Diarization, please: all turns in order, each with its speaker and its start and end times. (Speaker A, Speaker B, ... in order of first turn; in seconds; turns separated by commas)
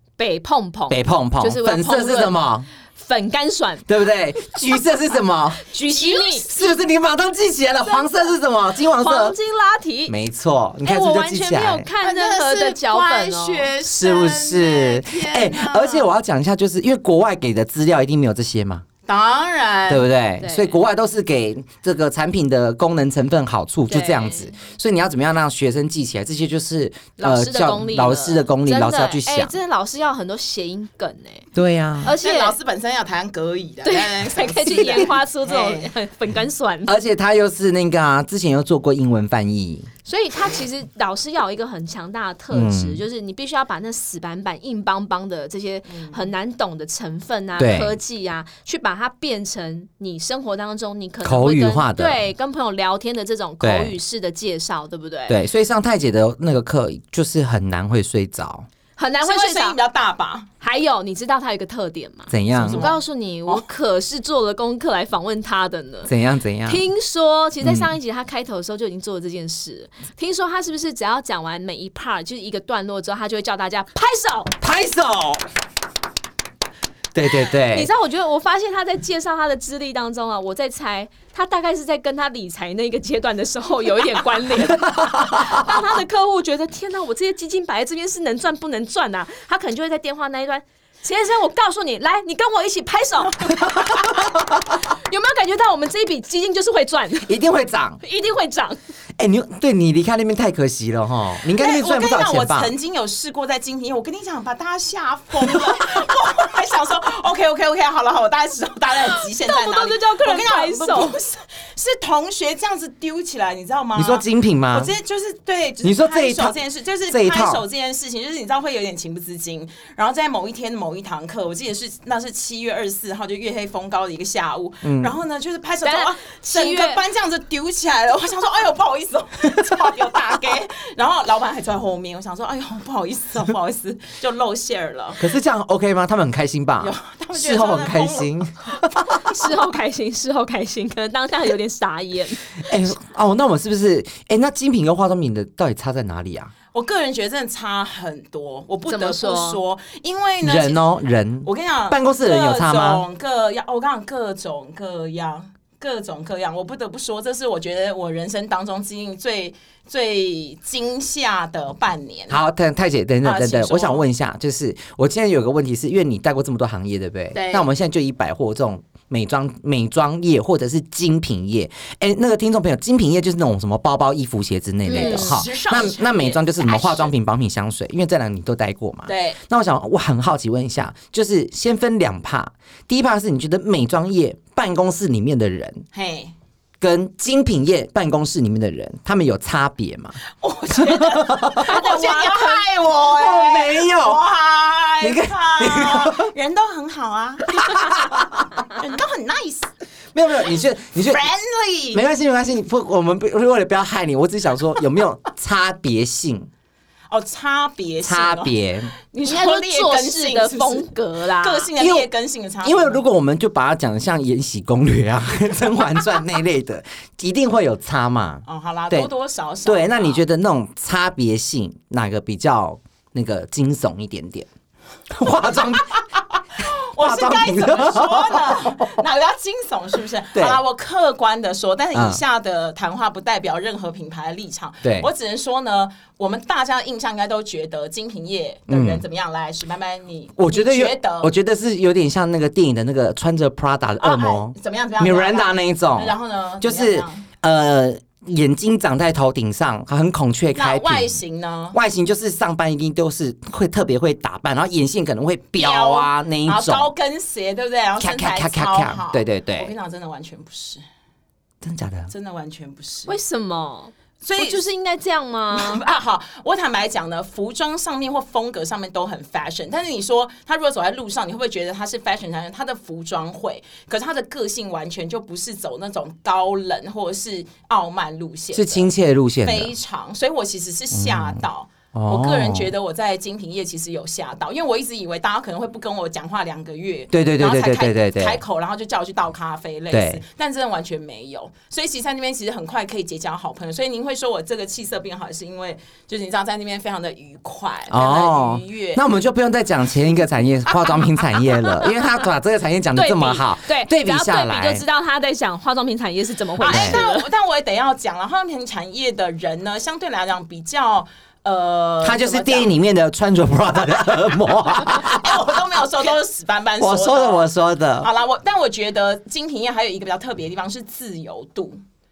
Speaker A: 0.2-2.4, Speaker B: 0.9-2.7, Speaker A: 3.0-3.9, Speaker B: 3.9-5.7, Speaker A: 5.6-6.5, Speaker B: 6.3-9.4, Speaker A: 7.8-8.3, Speaker A: 8.9-10.2, Speaker B: 10.1-11.9, Speaker A: 10.8-13.7, Speaker C: 12.0-16.1, Speaker B: 13.8-18.9, Speaker C: 19.1-20.1, Speaker B: 19.9-29.5, Speaker A: 20.4-20.8, Speaker A: 23.9-24.5, Speaker A: 27.2-31.5, Speaker B: 31.5-32.1, Speaker A: 32.0-32.5, Speaker C: 32.2-35.9, Speaker A: 33.8-37.0, Speaker B: 36.9-39.9, Speaker A: 40.1-55.4, Speaker B: 42.5-43.0, Speaker C: 45.9-46.2, Speaker B: 47.6-48.0, Speaker B: 51.2-52.2, Speaker B: 53.6-54.0, Speaker B: 55.3-58.7, Speaker A: 59.0-59.8, Speaker C: 59.2-60.5, Speaker A: 60.6-66.1, Speaker B: 62.3-62.8, Speaker C: 62.6-63.6, Speaker B: 66.1-66.8, Speaker A: 66.7-74.6, Speaker B: 67.6-67.9, Speaker B: 74.6-75.4, Speaker B: 77.1-77.9, Speaker A: 77.7-94.2, Speaker B: 85.0-85.7, Speaker B: 93.6-94.0, Speaker A: 94.8-97.3, Speaker B: 97.3-98.0, Speaker A: 98.0-98.8, Speaker B: 99.2-102.7, Speaker C: 101.6-135.3, Speaker A: 109.0-111.2, Speaker B: 114.0-114.9, Speaker B: 115.8-116.6, Speaker B: 117.1-117.6, Speaker B: 124.8-125.2, Speaker A: 125.8-127.0, Speaker B: 135.2-139.3, Speaker C: 136.8-138.5, Speaker A: 139.1-142.6, Speaker B: 142.6-146.5, Speaker C: 146.7-150.9, Speaker A: 148.9-149.6, Speaker B: 150.4-153.1, Speaker C: 151.4-162.4, Speaker B: 162.3-185.9, Speaker C: 163.2-164.1, Speaker C: 167.3-167.7, Speaker A: 174.9-175.4, Speaker C: 174.9-177.1, Speaker C: 179.1-179.4, Speaker C: 185.9-186.3, Speaker B: 186.8-190.2, Speaker C: 190.4-198.0, Speaker B: 190.7-191.9, Speaker A: 191.6-192.6, Speaker B: 192.9-194.2, Speaker B: 195.0-196.3, Speaker B: 197.5-198.5, Speaker C: 198.6-199.7, Speaker B: 200.1-201.2, Speaker C: 201.0-202.0, Speaker B: 201.9-206.5, Speaker C: 207.1-213.0, Speaker B: 208.0-208.9, Speaker A: 209.2-211.7, Speaker B: 211.8-212.1, Speaker B: 212.6-219.1, Speaker C: 218.5-220.2, Speaker B: 219.7-224.5, Speaker B: 225.1-226.0, Speaker B: 226.6-229.0, Speaker C: 226.6-241.3, Speaker B: 230.3-230.6, Speaker B: 231.9-232.2, Speaker B: 234.8-235.1, Speaker B: 238.7-239.1, Speaker B: 240.4-251.2, Speaker C: 244.0-247.3, Speaker C: 250.6-251.8, Speaker B: 251.7-256.9, Speaker C: 255.6-260.8, Speaker B: 258.0-259.7, Speaker B: 261.6-262.1, Speaker C: 262.1-263.1, Speaker A: 263.1-265.8, Speaker C: 264.2-264.6, Speaker C: 265.5-278.9, Speaker B: 278.5-279.7, Speaker C: 279.4-299.0, Speaker B: 280.9-282.7, Speaker B: 287.1-288.4, Speaker B: 289.9-290.2, Speaker B: 297.9-304.8, Speaker C: 300.7-301.1, Speaker A: 302.9-307.3, Speaker C: 306.6-312.7, Speaker B: 306.7-307.0, Speaker B: 312.0-315.6, Speaker C: 314.7-321.8, Speaker B: 316.8-318.1